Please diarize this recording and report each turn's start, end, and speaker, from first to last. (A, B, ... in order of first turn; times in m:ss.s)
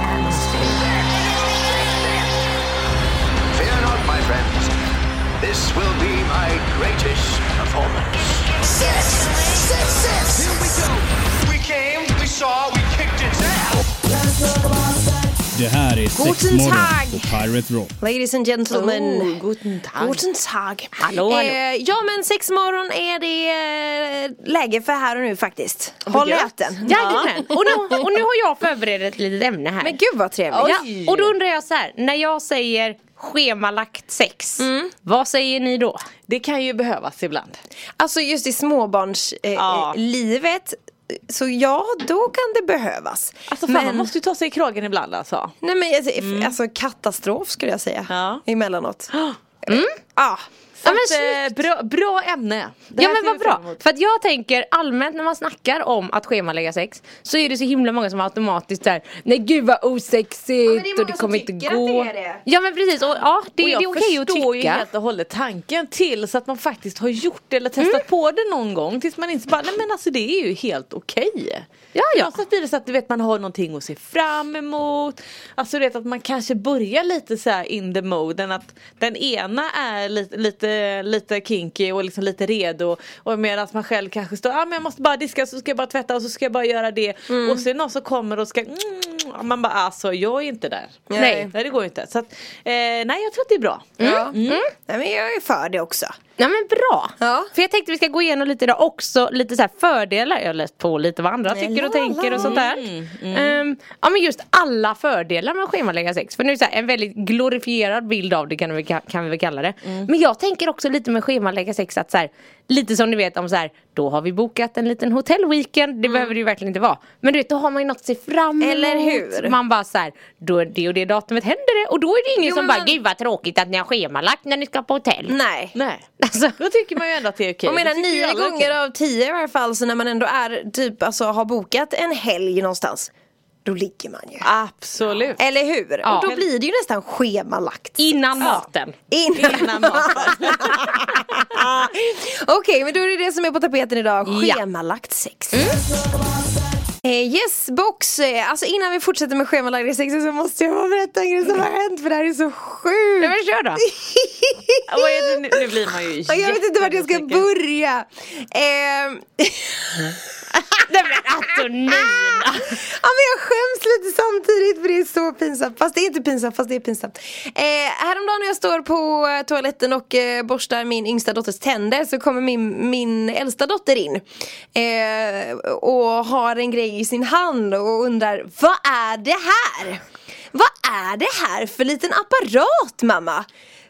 0:00.2-0:00.7 A
0:03.5-0:04.7 B
0:05.4-0:10.8 B
0:11.5-0:13.8 B
0:15.5-0:17.9 C
0:16.1-0:17.4 D
0:18.0-0:19.4 D
0:18.7-0:20.2 E
0:20.0-0:28.0 D
0:21.0-0:21.6 A
0:26.1-0:27.3 E
0:26.9-0:30.0 A
0:29.8-0:30.8 D
0:30.5-0:31.3 E
0:30.6-0:36.0 A
0:34.6-0:34.9 D
0:36.3-0:37.6 E
0:38.0-0:44.1 D
0:39.6-0:40.0 E
0:43.5-0:45.5 E
0:45.6-0:49.1 D
0:46.2-0:46.5 E
0:48.1-0:48.4 E
0:49.6-0:50.5 D
0:49.7-0:50.0 A
0:50.8-0:53.8 E
0:50.8-0:51.5 A
0:53.0-1:04.9 A
1:00.6-1:02.4 D
1:03.6-1:34.6 E
1:11.9-1:12.3 A
1:27.3-1:27.6 D
1:31.1-1:31.5 D
1:31.2-1:31.5 A
1:34.0-1:34.7 A
1:34.0-1:36.1 D
1:36.4-2:05.4 A
1:37.2-1:37.5 D
1:41.5-1:42.6 D
1:42.4-1:43.6 E
1:49.8-1:50.1 E
1:58.6-1:59.6 D
2:02.4-2:03.0 D
2:05.3-2:05.8 D
2:05.8-2:06.0 E
2:06.2-2:06.6 A
2:06.6-2:08.8 E
2:07.7-2:13.1 D
2:13.6-2:14.5 D
2:14.4-2:15.4 E
2:15.4-2:25.8 D
2:16.0-2:16.3 A
2:16.1-2:16.4 E
2:18.0-2:19.0 A
2:18.4-2:18.6 E
2:19.4-2:21.0 E
2:24.2-2:24.6 A
2:25.5-2:25.8 A
2:27.0-2:35.2 D
2:33.2-2:33.8 A
2:34.9-2:37.4 E
2:36.3-2:40.4 D
2:40.8-2:42.8 A
2:41.9-3:00.0 D
3:00.5-3:03.5 D